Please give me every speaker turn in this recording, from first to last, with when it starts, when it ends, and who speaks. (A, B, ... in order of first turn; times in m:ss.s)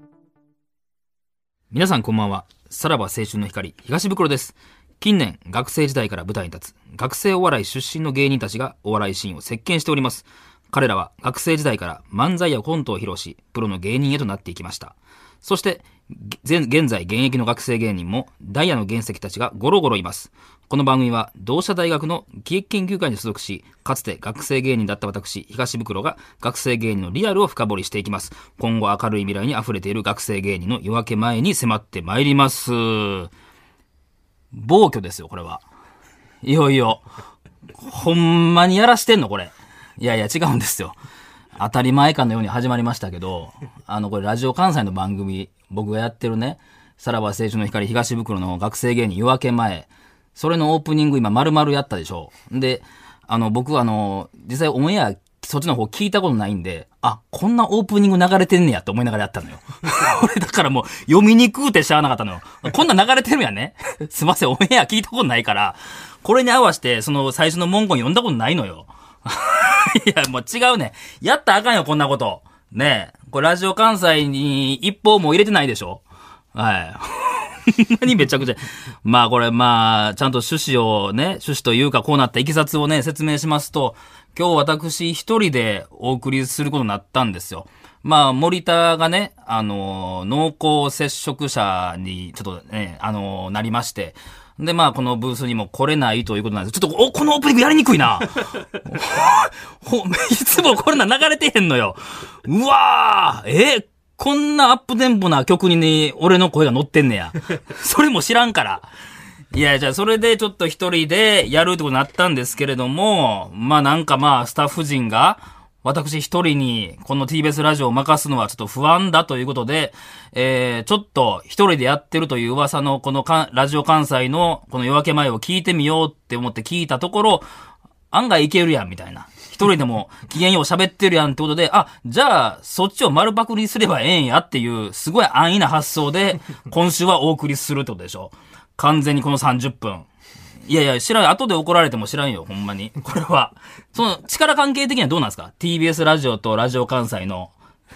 0:01.7-0:33.3 A
0:34.5-0:35.6 A
0:36.4-0:37.0 A
0:37.8-0:40.9 A
0:41.6-1:16.0 A
1:16.5-1:48.9 A
1:49.5-2:07.4 A
2:08.1-2:20.1 A
2:20.6-2:27.5 A